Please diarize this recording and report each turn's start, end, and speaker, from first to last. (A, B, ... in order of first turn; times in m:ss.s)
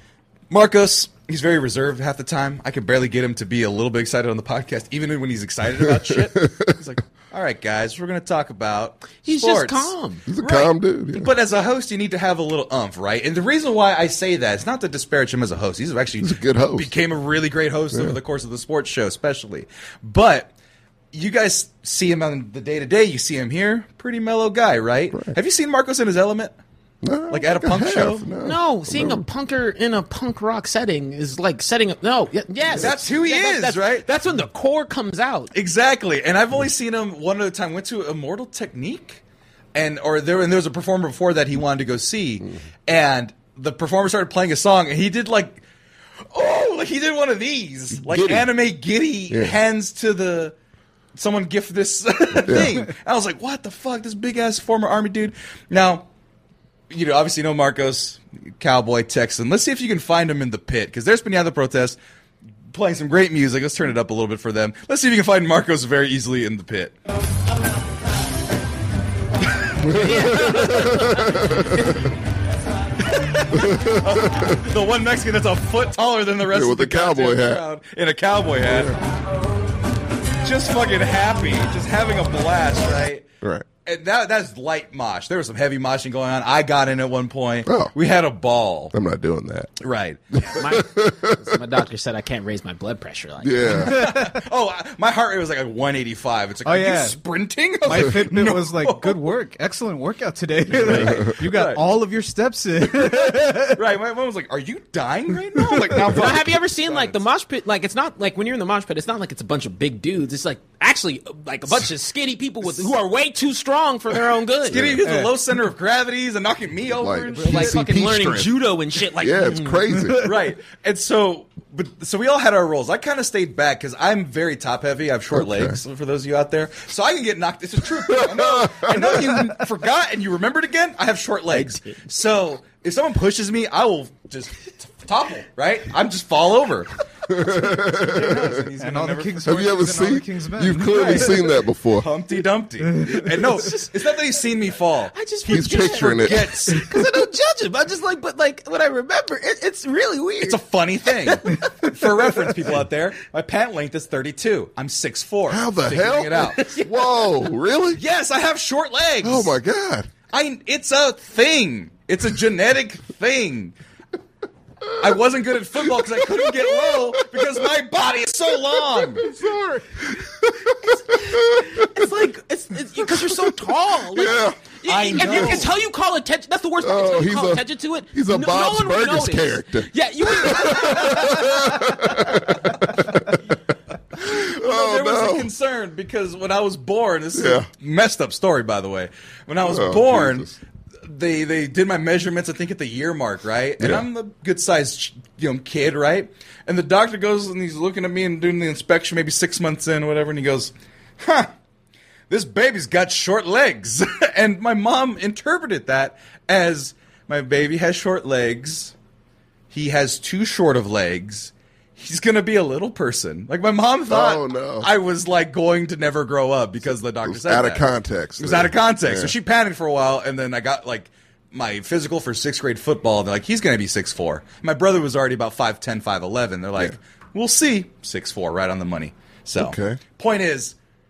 0:00.5-0:20.5 A
0:05.9-0:06.7 B
0:09.2-0:10.2 C
0:10.3-0:11.3 B
0:16.2-0:16.9 B
0:17.9-0:18.2 B
0:21.1-0:26.5 A
0:27.0-0:29.2 B
0:27.3-0:28.2 A
0:28.4-0:35.5 C
0:32.7-0:33.0 B
0:32.7-0:34.0 A
0:35.5-0:39.2 A
0:39.7-0:45.6 A
0:46.3-0:50.5 A
0:48.0-0:48.5 B
0:49.3-0:49.6 B
0:51.2-0:56.0 A
0:52.4-0:52.8 B
0:56.9-1:02.0 A
1:02.7-1:06.9 A
1:09.8-1:12.1 B
1:09.9-1:11.8 C
1:10.0-1:10.8 A
1:13.0-1:19.0 A
1:13.5-1:14.6 B
1:16.5-1:17.6 B
1:18.6-1:19.0 B
1:20.4-1:23.3 A
1:23.8-1:28.9 A
1:27.6-1:27.9 B
1:28.9-1:29.7 B
1:29.8-1:30.4 A
1:30.3-1:31.6 B
1:30.5-1:33.8 C
1:33.4-1:34.1 B
1:33.7-1:39.2 A
1:33.9-1:34.4 D
1:36.6-1:37.2 D
1:37.8-1:43.8 D
1:40.8-1:41.8 A
1:40.9-1:41.3 B
1:42.9-1:47.0 A
1:45.6-1:46.0 D
1:46.1-1:54.9 C
1:54.7-1:55.0 B
1:54.7-1:57.8 A
1:55.0-1:55.4 D
1:56.9-1:58.5 B
1:57.4-1:59.8 C
1:59.2-2:00.3 B
2:00.0-2:00.3 D
2:00.2-2:19.5 A
2:05.3-2:05.8 B
2:08.1-2:09.3 B
2:11.5-2:12.0 C
2:17.3-2:18.6 B
2:18.8-2:21.4 D
2:19.4-2:22.1 B
2:20.8-2:26.9 A
2:22.9-2:23.3 D
2:23.4-2:23.9 C
2:25.1-2:30.6 C
2:25.5-2:26.6 B
2:30.4-2:36.6 A
2:31.1-2:31.9 C
2:35.5-2:38.0 B
2:36.4-2:37.2 C
2:37.9-2:39.6 A
2:39.2-2:40.1 B
2:40.3-2:43.7 A
2:45.0-2:49.2 A
2:45.9-2:47.7 B
2:48.7-2:52.1 B
2:51.1-3:02.0 C
2:53.0-2:55.7 B
2:54.8-2:55.7 A
2:56.8-3:03.4 B
3:04.2-3:05.5 B
3:04.2-3:10.5 A
3:07.3-3:07.7 B
3:09.6-3:10.6 B
3:11.0-3:21.5 A
3:13.8-3:14.0 B
3:22.3-3:28.9 A
3:29.7-3:37.8 A
3:34.1-3:34.9 B
3:37.2-3:39.3 B
3:38.4-3:50.7 A
3:49.6-3:50.0 B